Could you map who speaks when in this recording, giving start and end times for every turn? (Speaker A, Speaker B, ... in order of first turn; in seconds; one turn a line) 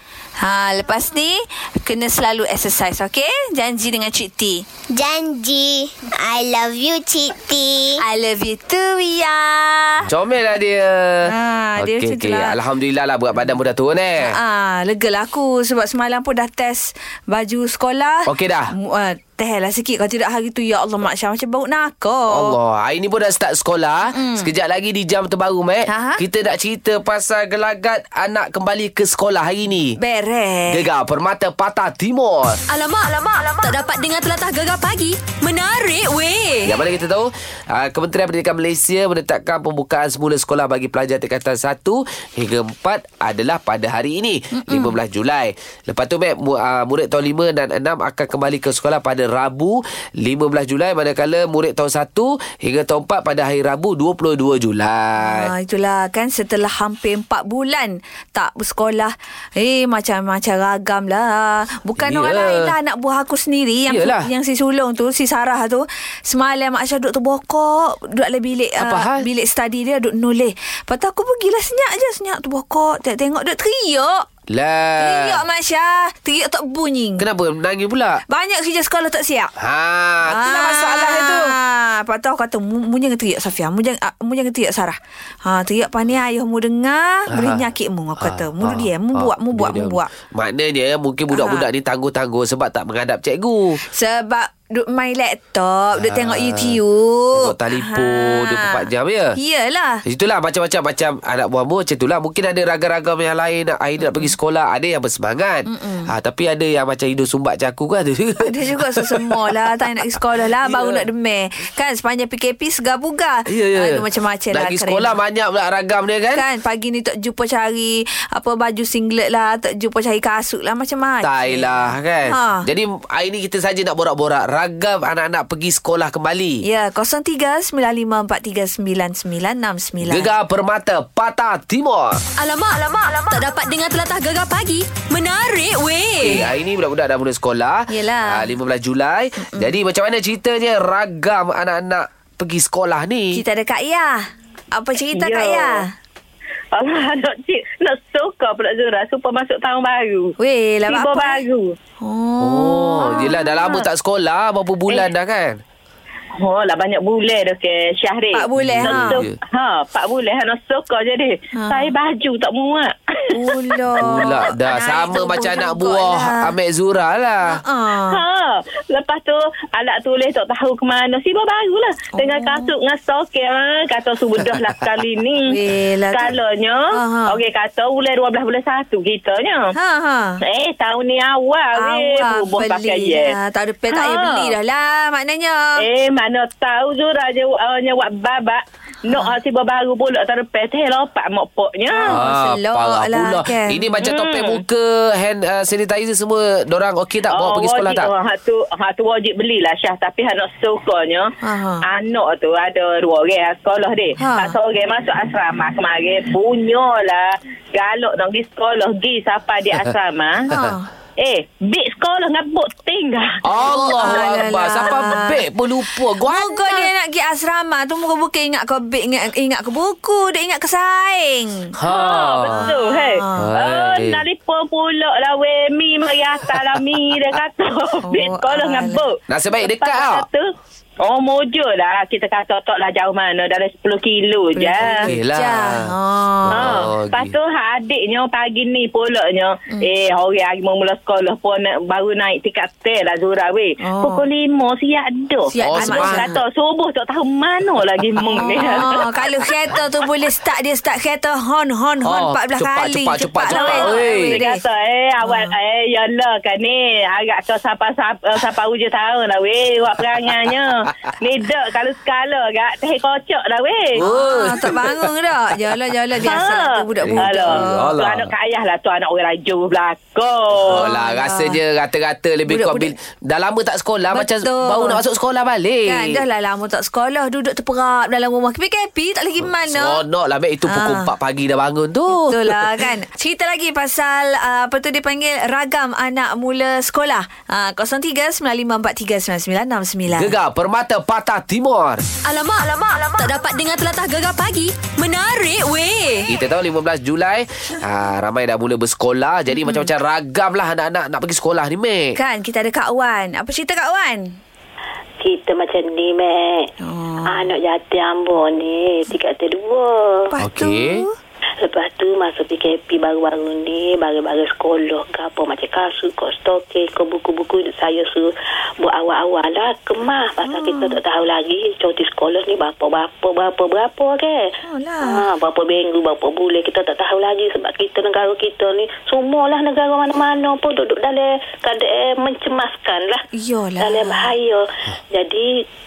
Speaker A: 0.4-4.6
Speaker B: 4.9-8.0
Speaker A: 8.0-10.1
Speaker C: 10.1-14.3
Speaker A: 11.3-12.5
Speaker A: 14.2-22.6
Speaker C: 18.3-18.7
Speaker C: 22.3-30.0
Speaker A: 24.1-24.5
Speaker A: 25.9-26.2
Speaker A: 30.0-30.8
Speaker C: 30.7-32.6
Speaker D: 32.7-36.7
Speaker C: 36.6-55.5
Speaker A: 44.6-44.9
Speaker A: 55.2-74.2
Speaker C: 62.0-62.7
Speaker C: 63.9-64.3
Speaker C: 68.8-69.3
Speaker C: 74.5-75.4
Speaker A: 75.0-77.3
Speaker C: 77.2-78.2
Speaker A: 78.3-79.5
Speaker C: 79.6-81.5
Speaker A: 80.2-90.1
Speaker C: 87.3-87.7
Speaker C: 88.2-93.8
Speaker A: 91.3-91.7
Speaker A: 93.9-100.0
Speaker C: 96.0-96.8
Speaker C: 97.3-99.3
Speaker C: 100.0-109.8
Speaker A: 104.0-104.3
Speaker A: 105.7-106.1
Speaker A: 108.5-115.2
Speaker C: 110.6-111.0
Speaker C: 113.5-114.0
Speaker C: 114.5-116.4
Speaker A: 116.3-122.6
Speaker C: 121.2-126.6
Speaker A: 126.6-130.3
Speaker C: 130.0-132.2
Speaker D: 132.4-136.3
Speaker C: 136.2-143.4
Speaker A: 137.9-138.5
Speaker A: 143.3-145.9
Speaker E: 145.0-145.8
Speaker E: 146.7-150.3
Speaker A: 150.4-151.4
Speaker E: 150.9-151.7
Speaker A: 152.0-153.8
Speaker C: 152.4-155.6
Speaker E: 156.4-162.9
Speaker A: 158.3-159.2
Speaker C: 158.6-159.4
Speaker A: 161.6-161.9
Speaker A: 163.3-166.5
Speaker C: 164.0-167.6
Speaker A: 167.5-168.2
Speaker E: 168.0-175.4
Speaker A: 172.1-172.7
Speaker A: 175.5-176.3
Speaker E: 176.1-179.7
Speaker A: 176.9-177.4
Speaker A: 179.7-180.4
Speaker E: 180.4-183.3
Speaker A: 181.8-185.8
Speaker E: 183.9-184.5
Speaker E: 185.8-192.2
Speaker A: 189.1-189.4
Speaker A: 191.9-194.0
Speaker C: 192.1-198.1
Speaker E: 194.0-194.6
Speaker E: 197.3-201.3
Speaker A: 201.4-201.8
Speaker E: 201.8-210.4
Speaker A: 204.2-204.5
Speaker A: 210.5-210.9
Speaker E: 211.2-214.3
Speaker C: 213.4-216.9
Speaker A: 213.7-215.4
Speaker A: 216.2-221.7
Speaker C: 221.8-222.6
Speaker E: 221.9-230.5
Speaker A: 222.5-223.5
Speaker C: 223.3-224.2
Speaker A: 228.1-229.0
Speaker C: 229.3-230.2
Speaker E: 231.0-235.1
Speaker A: 234.5-236.7
Speaker C: 234.8-235.9
Speaker C: 236.4-237.3
Speaker E: 236.5-249.2
Speaker A: 243.8-244.2
Speaker A: 245.5-246.3
Speaker C: 245.6-246.4
Speaker A: 248.3-254.6
Speaker C: 252.0-254.4
Speaker E: 253.4-264.0
Speaker A: 255.2-255.5
Speaker C: 264.0-265.1
Speaker A: 264.0-267.9
Speaker E: 266.2-270.9
Speaker C: 267.0-268.3
Speaker C: 270.6-276.2
Speaker A: 270.7-271.6
Speaker A: 272.5-272.9
Speaker A: 274.1-275.0
Speaker A: 275.9-280.0
Speaker C: 279.5-282.7
Speaker A: 280.7-281.1
Speaker A: 282.1-290.3
Speaker C: 290.1-292.0
Speaker D: 292.2-296.3
Speaker C: 296.3-302.1
Speaker A: 299.5-299.9
Speaker A: 302.1-304.4
Speaker F: 305.2-306.7
Speaker A: 306.8-307.5
Speaker F: 307.3-310.2
Speaker A: 310.3-311.1
Speaker C: 310.4-311.0
Speaker F: 311.6-318.3
Speaker F: 318.8-324.4
Speaker A: 320.4-321.0
Speaker A: 324.6-325.2
Speaker F: 325.0-333.2
Speaker A: 333.3-334.3
Speaker F: 333.8-335.5